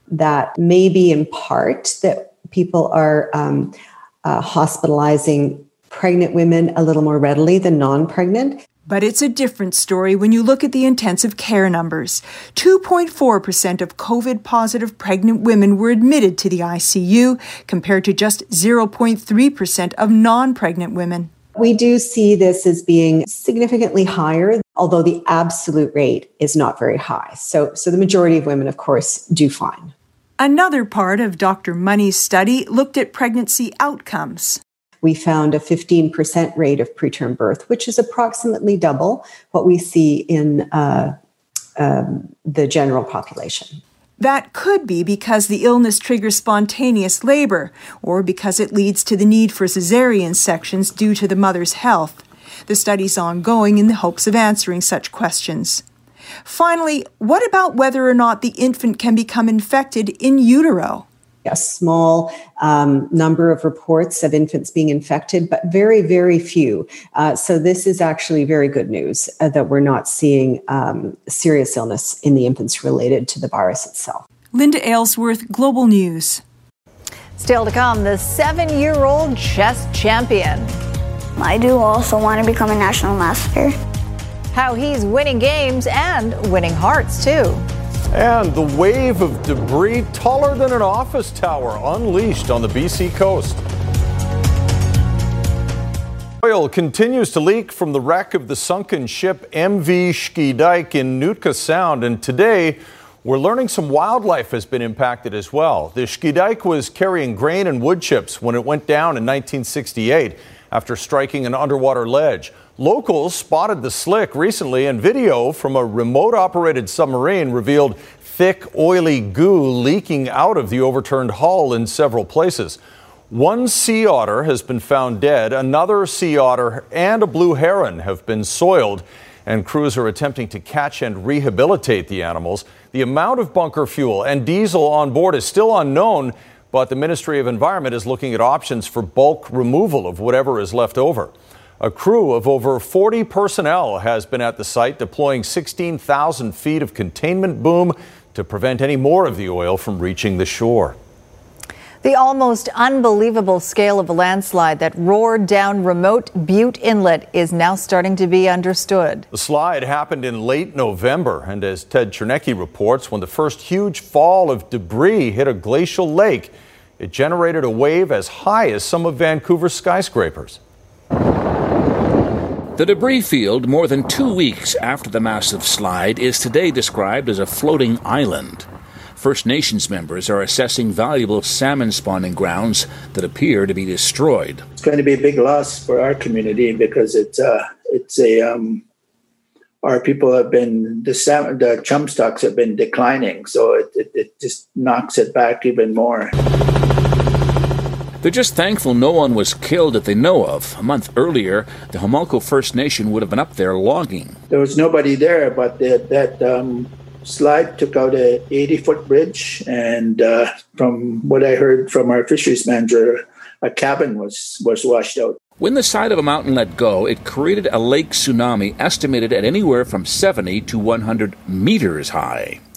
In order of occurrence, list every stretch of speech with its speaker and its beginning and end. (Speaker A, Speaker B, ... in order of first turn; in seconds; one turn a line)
Speaker A: 0.1-8.6
Speaker B: 8.8-21.3
Speaker A: 21.6-29.9
Speaker B: 30.4-34.6
Speaker A: 35.0-41.1
Speaker A: 41.8-43.8
Speaker B: 44.2-55.8
Speaker B: 56.4-61.0
Speaker A: 61.5-74.2
Speaker B: 74.5-76.4
Speaker C: 77.4-80.8
Speaker D: 81.4-83.7
Speaker C: 84.5-87.6
Speaker E: 88.1-93.6
Speaker E: 96.4-122.8
Speaker E: 123.3-150.9
Speaker C: 152.0-159.3
Speaker E: 159.3-170.6
Speaker F: 172.8-178.7
Speaker F: 179.2-184.6
Speaker G: 184.8-188.8
Speaker G: 189.8-196.3
Speaker F: 198.2-204.3
Speaker G: 204.5-215.4
Speaker F: 215.6-222.6